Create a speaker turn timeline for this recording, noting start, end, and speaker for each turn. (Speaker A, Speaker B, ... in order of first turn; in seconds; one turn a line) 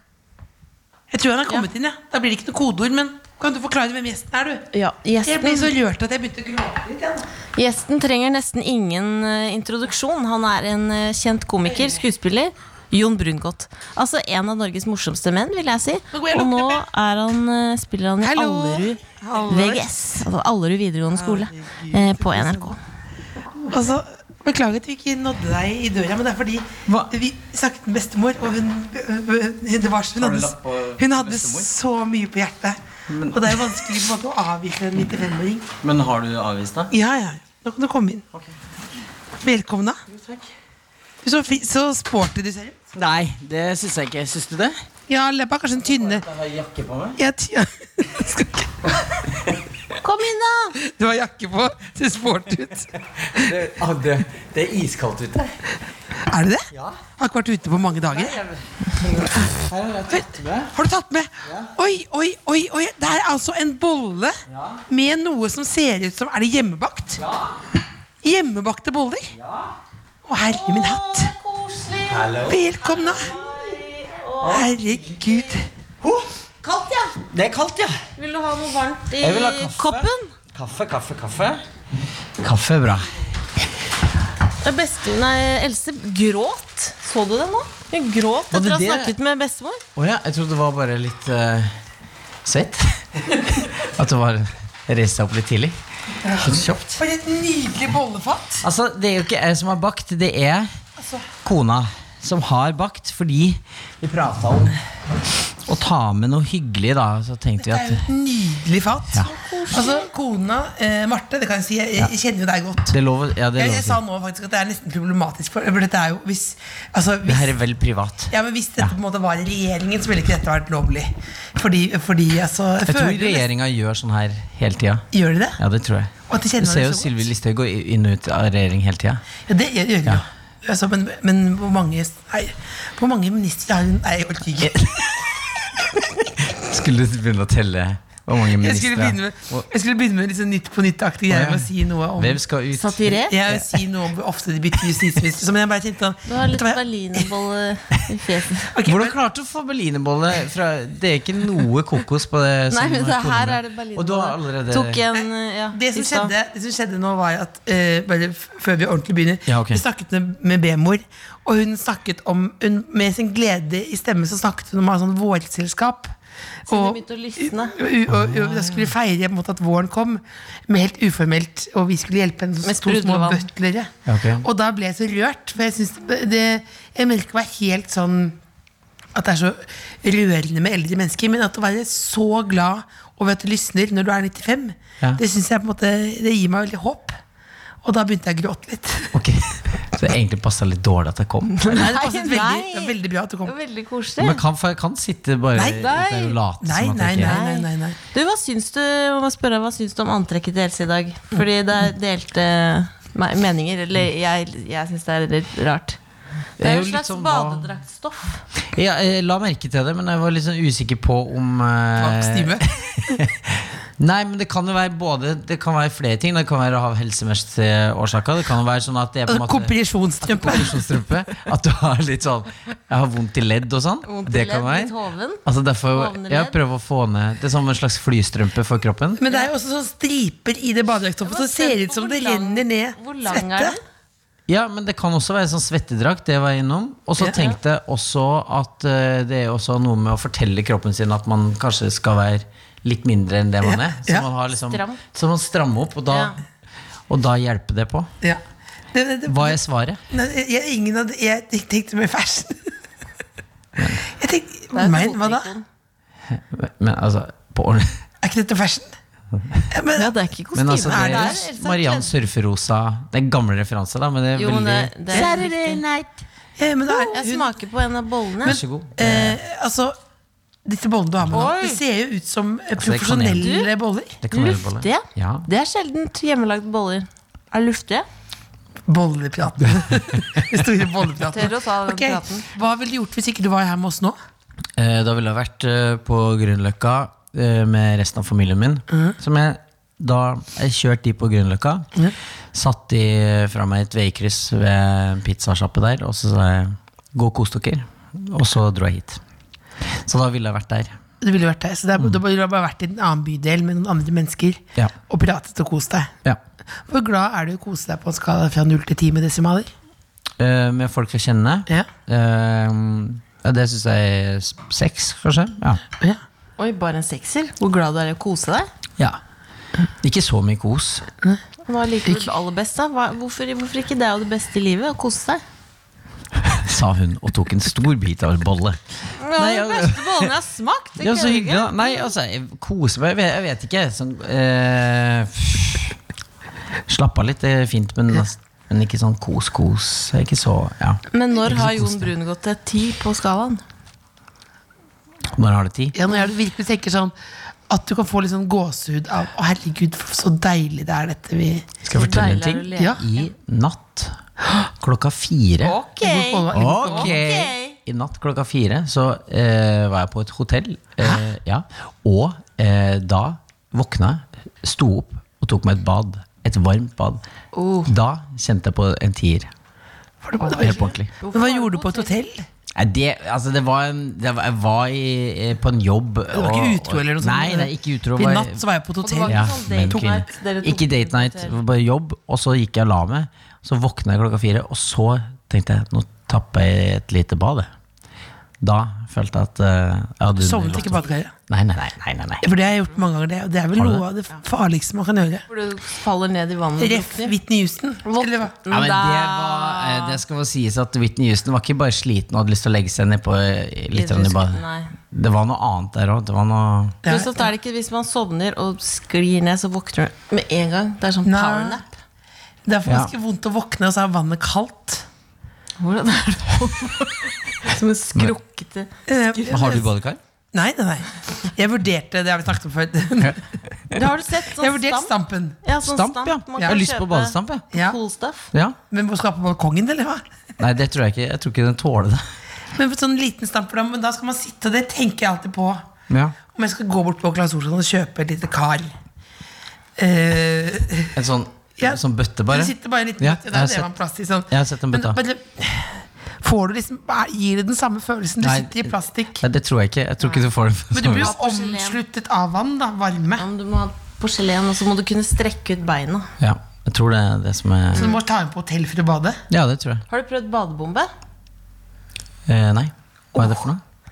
Speaker A: 1.1-4.7
Speaker B: 4.7-5.7
Speaker A: 5.2-7.3
Speaker B: 7.6-22.8
Speaker A: 16.1-16.9
Speaker A: 18.2-19.9
Speaker A: 21.2-22.8
Speaker A: 23.6-35.7
Speaker C: 26.9-27.1
Speaker C: 30.1-31.7
Speaker C: 33.1-33.9
Speaker C: 35.8-36.9
Speaker A: 36.9-38.2
Speaker A: 39.4-40.0
Speaker C: 40.1-40.5
Speaker A: 41.2-42.8
Speaker C: 42.9-44.8
Speaker A: 45.1-46.2
Speaker C: 45.9-47.2
Speaker A: 47.2-49.0
Speaker C: 49.3-49.6
Speaker B: 50.0-50.8
Speaker A: 50.8-53.5
Speaker C: 53.2-55.6
Speaker A: 56.2-58.4
Speaker C: 56.7-57.0
Speaker C: 58.0-60.7
Speaker A: 60.1-64.4
Speaker C: 61.5-61.7
Speaker C: 64.5-64.8
Speaker A: 64.9-67.2
Speaker C: 67.2-67.5
Speaker A: 68.2-69.3
Speaker C: 69.4-69.7
Speaker A: 70.2-71.3
Speaker B: 70.4-74.7
Speaker C: 72.1-72.6
Speaker A: 72.4-73.4
Speaker A: 74.4-75.7
Speaker C: 76.0-76.3
Speaker B: 76.6-77.2
Speaker C: 77.3-78.0
Speaker B: 78.2-80.3
Speaker C: 79.2-81.6
Speaker C: 82.4-83.2
Speaker B: 84.6-89.8
Speaker C: 88.5-89.2
Speaker C: 90.0-91.7
Speaker C: 92.5-93.0
Speaker C: 93.6-97.0
Speaker A: 96.3-98.7
Speaker C: 98.6-100.7
Speaker A: 101.0-101.3
Speaker C: 101.4-104.8
Speaker C: 105.7-108.0
Speaker A: 107.6-113.0
Speaker B: 109.3-110.1
Speaker C: 112.9-114.0
Speaker A: 113.6-117.6
Speaker C: 117.3-118.9
Speaker A: 118.3-123.5
Speaker C: 122.9-125.0
Speaker A: 125.1-125.6
Speaker C: 125.6-129.2
Speaker A: 126.3-127.3
Speaker A: 129.4-135.1
Speaker C: 134.6-139.7
Speaker A: 138.5-142.4
Speaker C: 141.3-143.8
Speaker B: 142.8-143.3
Speaker A: 143.3-147.3
Speaker B: 146.3-148.7
Speaker A: 148.7-149.2
Speaker C: 148.8-155.0
Speaker B: 152.7-156.3
Speaker A: 155.1-166.2
Speaker C: 159.5-159.8
Speaker A: 166.7-178.4
Speaker B: 166.7-167.8
Speaker C: 168.1-168.9
Speaker B: 172.6-173.5
Speaker C: 174.1-174.5
Speaker A: 179.1-187.2
Speaker A: 187.8-189.2
Speaker C: 189.1-191.8
Speaker B: 191.6-194.4
Speaker A: 191.7-193.6
Speaker C: 194.2-197.4
Speaker A: 195.6-195.9
Speaker B: 195.7-196.4
Speaker A: 196.6-198.0
Speaker B: 197.2-206.0
Speaker C: 206.6-207.7
Speaker B: 206.6-208.4
Speaker C: 208.7-224.9
Speaker A: 212.0-213.2
Speaker A: 219.3-220.9
Speaker B: 224.1-226.6
Speaker C: 225.4-229.2
Speaker A: 229.2-233.8
Speaker B: 231.2-233.8
Speaker C: 234.5-246.4
Speaker A: 243.6-244.3
Speaker B: 244.7-245.0
Speaker B: 246.1-246.4
Speaker C: 247.1-248.1
Speaker A: 248.9-252.8
Speaker C: 249.3-250.0
Speaker C: 253.8-254.1
Speaker A: 254.1-255.5
Speaker B: 254.7-255.7
Speaker C: 256.3-258.0
Speaker A: 258.2-259.0
Speaker C: 259.4-259.6
Speaker A: 259.7-260.2
Speaker B: 259.9-262.1
Speaker C: 260.5-266.2
Speaker A: 260.8-261.5
Speaker B: 264.4-265.8
Speaker A: 265.1-265.4
Speaker A: 266.6-267.5
Speaker B: 266.9-268.6
Speaker C: 268.4-269.4
Speaker A: 268.4-270.0
Speaker A: 270.6-274.2
Speaker B: 271.3-271.8
Speaker C: 272.8-273.4
Speaker B: 273.4-273.7
Speaker C: 274.2-275.5
Speaker B: 274.3-278.1
Speaker A: 278.9-284.2
Speaker C: 279.8-280.4
Speaker B: 281.3-282.5
Speaker C: 284.8-291.9
Speaker C: 292.5-299.2
Speaker C: 299.9-301.0
Speaker A: 301.2-306.2
Speaker A: 306.9-309.7
Speaker C: 310.4-315.8
Speaker B: 316.6-318.7
Speaker C: 320.0-321.1
Speaker B: 321.7-325.4
Speaker C: 326.4-330.3
Speaker B: 329.2-332.1
Speaker C: 331.0-336.0
Speaker C: 336.9-342.1
Speaker B: 341.1-343.6
Speaker C: 345.3-346.0
Speaker A: 345.9-347.1
Speaker A: 347.7-351.8
Speaker C: 351.9-354.2
Speaker B: 351.9-353.1
Speaker A: 352.8-353.0
Speaker C: 354.8-355.8
Speaker B: 355.6-357.8
Speaker A: 355.9-357.2
Speaker C: 356.5-367.2
Speaker B: 367.5-367.9
Speaker C: 367.9-369.5
Speaker A: 370.2-372.5
Speaker C: 370.5-371.1
Speaker B: 371.2-372.1
Speaker C: 372.8-378.6
Speaker A: 376.3-380.3
Speaker B: 379.0-381.6
Speaker C: 379.3-387.7
Speaker C: 388.6-392.4
Speaker A: 390.4-391.4
Speaker A: 392.4-395.5
Speaker C: 393.8-394.0
Speaker B: 395.5-397.4
Speaker A: 396.8-398.6
Speaker B: 398.1-400.2
Speaker C: 398.7-407.0
Speaker B: 403.9-404.9
Speaker A: 407.0-407.5
Speaker B: 407.1-411.9
Speaker A: 411.2-411.8
Speaker A: 412.6-415.1
Speaker C: 412.9-413.1
Speaker B: 415.8-419.7
Speaker A: 419.1-419.9
Speaker C: 419.4-420.2
Speaker A: 420.5-423.4
Speaker B: 423.9-428.5
Speaker A: 424.6-425.6
Speaker C: 425.8-427.7
Speaker A: 427.7-428.0
Speaker A: 428.9-430.2
Speaker C: 430.6-432.2
Speaker A: 432.8-435.9
Speaker C: 436.1-436.4
Speaker A: 436.4-439.0
Speaker A: 440.0-441.2
Speaker C: 441.1-443.9
Speaker A: 441.8-449.4
Speaker C: 444.5-445.2
Speaker C: 448.4-451.3
Speaker A: 450.9-453.4
Speaker B: 451.0-452.0
Speaker B: 453.4-456.3
Speaker C: 456.4-458.0
Speaker B: 457.9-458.2
Speaker A: 457.9-459.4
Speaker C: 459.5-460.1
Speaker B: 460.1-461.1
Speaker C: 462.5-463.8
Speaker A: 463.4-463.6